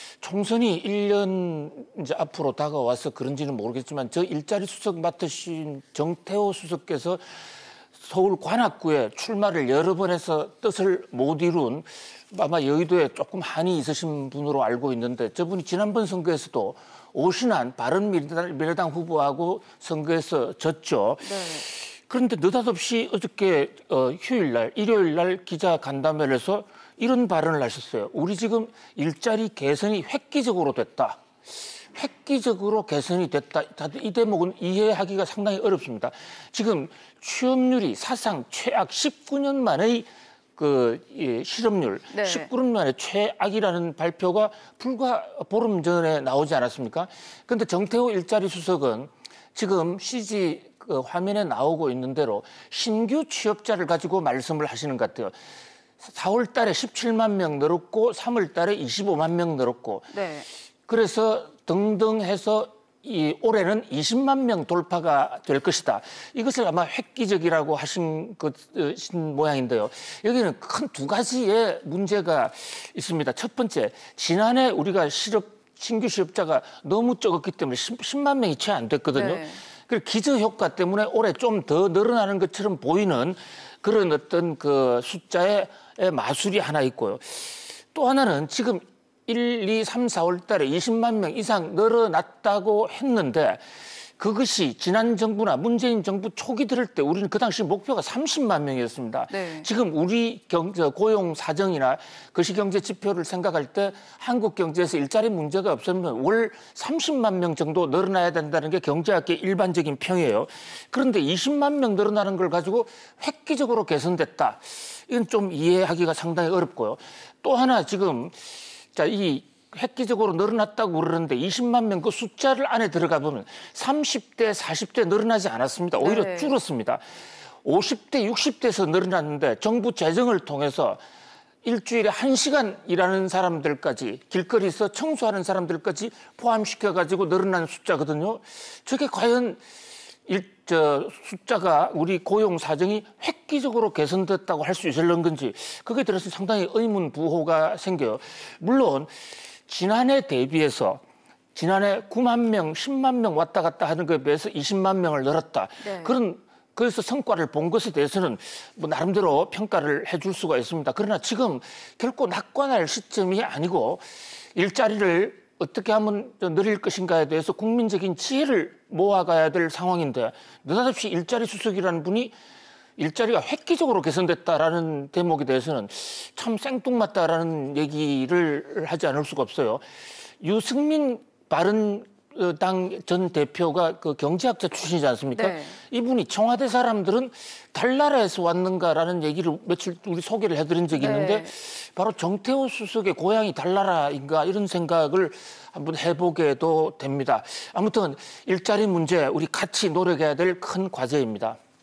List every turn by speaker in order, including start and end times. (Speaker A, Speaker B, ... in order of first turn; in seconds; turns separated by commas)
Speaker A: 0.2-7.4, Speaker A: 8.0-31.2, Speaker B: 21.2-21.6, Speaker A: 31.9-55.4, Speaker B: 42.1-42.5, Speaker A: 56.0-60.2, Speaker B: 60.1-60.5, Speaker A: 60.9-93.6, Speaker B: 79.1-79.6, Speaker A: 94.2-118.3, Speaker B: 99.3-99.7, Speaker A: 118.9-127.0, Speaker B: 126.0-126.5, Speaker A: 127.6-131.0, Speaker A: 131.6-139.6, Speaker A: 140.2-149.1, Speaker A: 149.7-151.0, Speaker A: 151.5-172.3, Speaker B: 155.8-156.2, Speaker A: 173.0-179.8, Speaker A: 180.4-201.6, Speaker B: 185.3-185.8, Speaker B: 190.9-191.5